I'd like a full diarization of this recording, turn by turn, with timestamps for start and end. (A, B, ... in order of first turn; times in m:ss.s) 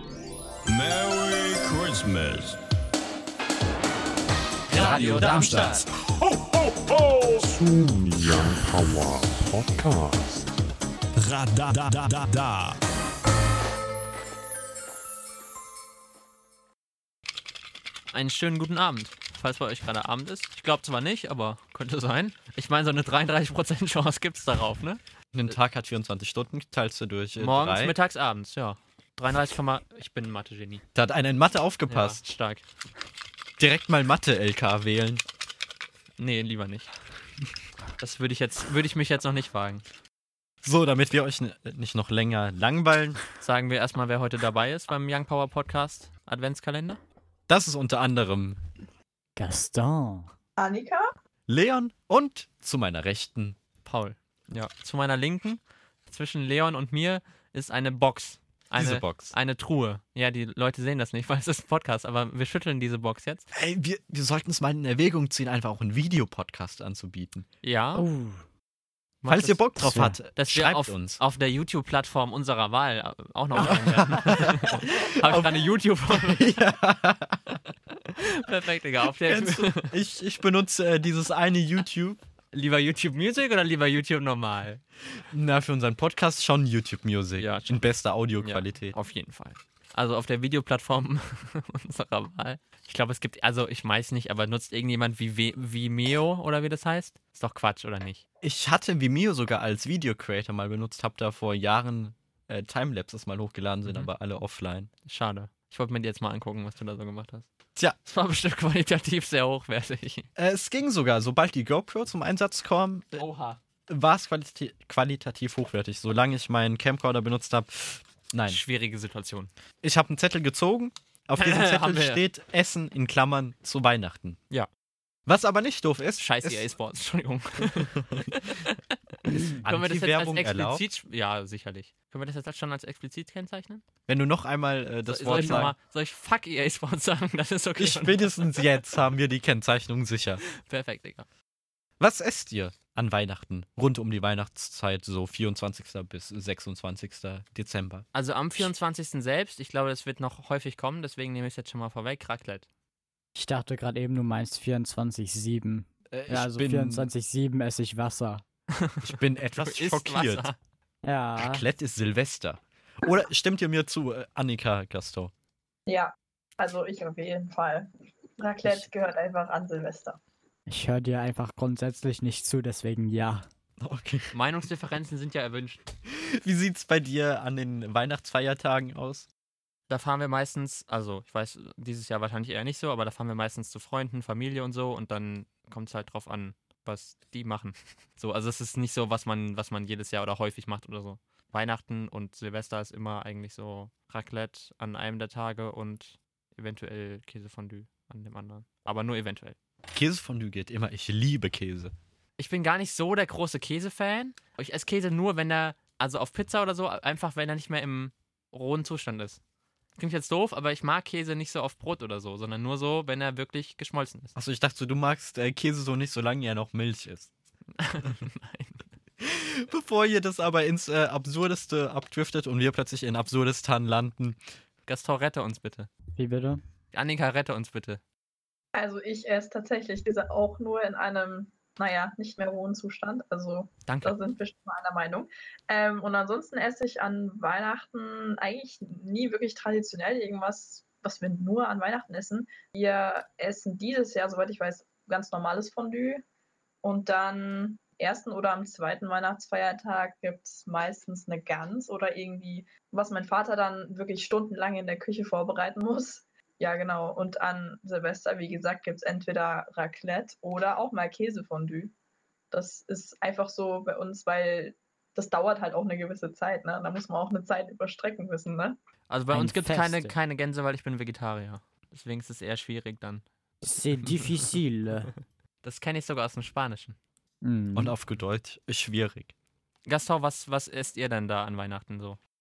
0:00.6-0:02.6 A
0:04.7-0:05.8 B
0:04.7-0:10.3 A
0:11.2-0:12.8 A
0:18.1-0:25.0 B
0:25.3-0:27.9 C
0:27.4-0:30.8 B
0:30.9-0:32.2 C
0:31.9-0:32.6 B
0:33.6-0:35.2 C
0:36.2-0:36.9 B
0:38.0-0:39.8 B
0:40.6-0:43.2 C
0:43.4-0:47.0 B
0:47.5-0:48.6 C
0:49.4-0:50.3 D
0:50.6-0:51.1 E
0:51.5-0:53.6 C
0:53.8-1:03.4 B
0:58.8-0:59.3 C
1:03.5-1:07.5 C
1:07.6-1:08.0 B
1:08.0-1:08.4 D
1:09.2-1:09.8 B
1:09.3-1:11.2 C
1:09.8-1:10.2 D
1:10.4-1:16.6 B
1:13.6-1:15.6 C
1:16.1-1:17.6 C
1:18.1-1:19.9 B
1:19.2-1:22.2 C
1:22.5-1:24.8 B
1:25.3-1:28.9 C
1:27.4-1:27.9 B
1:28.4-1:38.2 B
1:38.4-1:44.9 C
1:43.8-1:44.1 B
1:45.0-1:47.5 B
1:48.1-1:50.3 B
1:50.4-1:53.2 C
1:53.2-1:53.6 B
1:53.9-1:58.6 C
1:58.5-1:59.5 B
1:59.8-2:04.4 C
2:01.4-2:02.2 B
2:05.3-2:06.7 C
2:06.2-2:13.8 B
2:07.9-2:08.3 C
2:09.6-2:10.8 C
2:14.1-2:15.7 C
2:15.1-2:18.7 B
2:15.3-2:15.7 D
2:17.8-2:20.4 C
2:20.6-2:21.2 B
2:22.0-2:28.0 C
2:28.1-2:32.7 B
2:33.3-2:38.4 D
2:36.1-2:37.1 C
2:39.0-2:40.5 C
2:39.6-2:40.6 B
2:41.0-2:41.6 D
2:41.4-2:45.3 C
2:45.9-2:50.2 E
2:50.7-2:53.5 D
2:53.8-2:54.3 C
2:54.3-2:55.8 B
2:56.1-2:59.3 C
2:59.9-3:19.6 B
3:19.9-3:21.9 C
3:22.4-3:29.4 B
3:30.0-3:34.3 B
3:34.4-3:37.3 C
3:37.8-3:38.8 B
3:39.2-3:44.4 C
3:44.9-3:45.9 B
3:46.2-3:46.6 D
3:46.9-3:48.0 B
3:48.7-4:06.2 E
3:53.9-3:54.2 B
4:06.8-4:21.9 E
4:22.5-4:28.8 E
4:29.1-4:33.2 B
4:29.3-4:30.1 D
4:33.6-4:35.1 D
4:35.6-4:37.0 B
4:37.4-4:38.0 D
4:37.7-4:39.3 C
4:39.8-4:42.2 B